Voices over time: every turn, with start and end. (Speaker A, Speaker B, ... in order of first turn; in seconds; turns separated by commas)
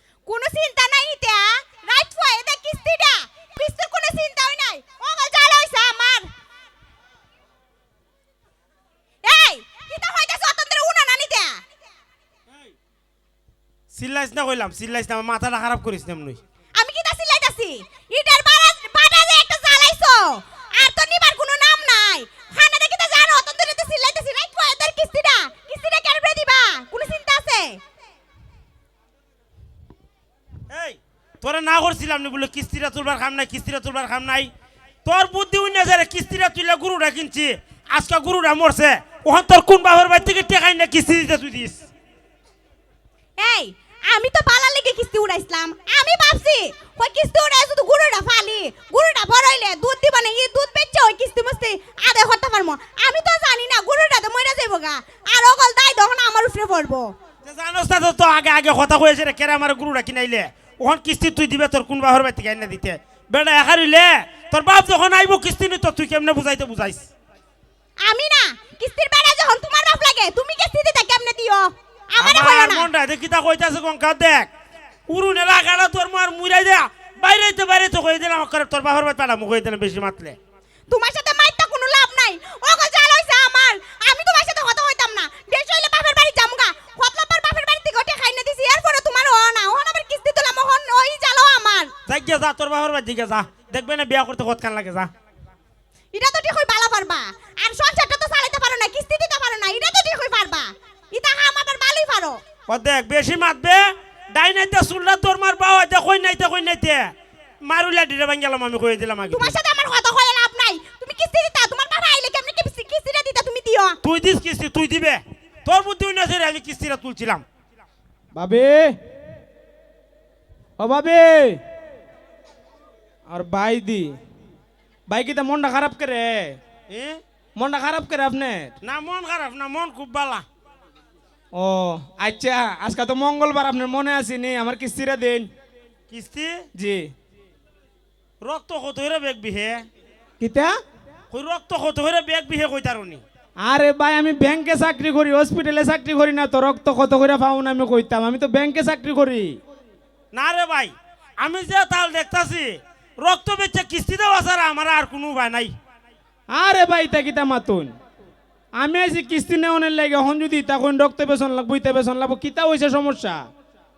Speaker A: 0.3-6.3, Speaker A: 9.2-11.6, Speaker B: 13.9-16.4, Speaker A: 16.8-27.8, Speaker B: 30.7-34.5, Speaker B: 35.0-41.8, Speaker A: 43.4-57.1, Speaker B: 57.4-67.1, Speaker A: 68.0-72.9, Speaker B: 72.2-74.5, Speaker B: 75.1-80.4, Speaker A: 80.9-91.9, Speaker B: 92.1-95.1, Speaker A: 96.1-102.4, Speaker B: 102.7-109.6, Speaker A: 109.3-114.0, Speaker B: 114.0-117.4, Speaker C: 118.3-119.0, Speaker C: 120.8-121.6, Speaker C: 123.3-124.2, Speaker C: 125.1-126.6, Speaker B: 126.9-127.2, Speaker C: 127.6-128.7, Speaker B: 128.8-130.4, Speaker C: 131.5-135.5, Speaker B: 136.1-136.7, Speaker C: 136.8-137.1, Speaker B: 138.4-139.8, Speaker C: 140.4-140.8, Speaker B: 141.3-143.2, Speaker C: 143.6-149.6, Speaker B: 150.3-155.8, Speaker C: 156.5-157.9, Speaker C: 158.8-163.5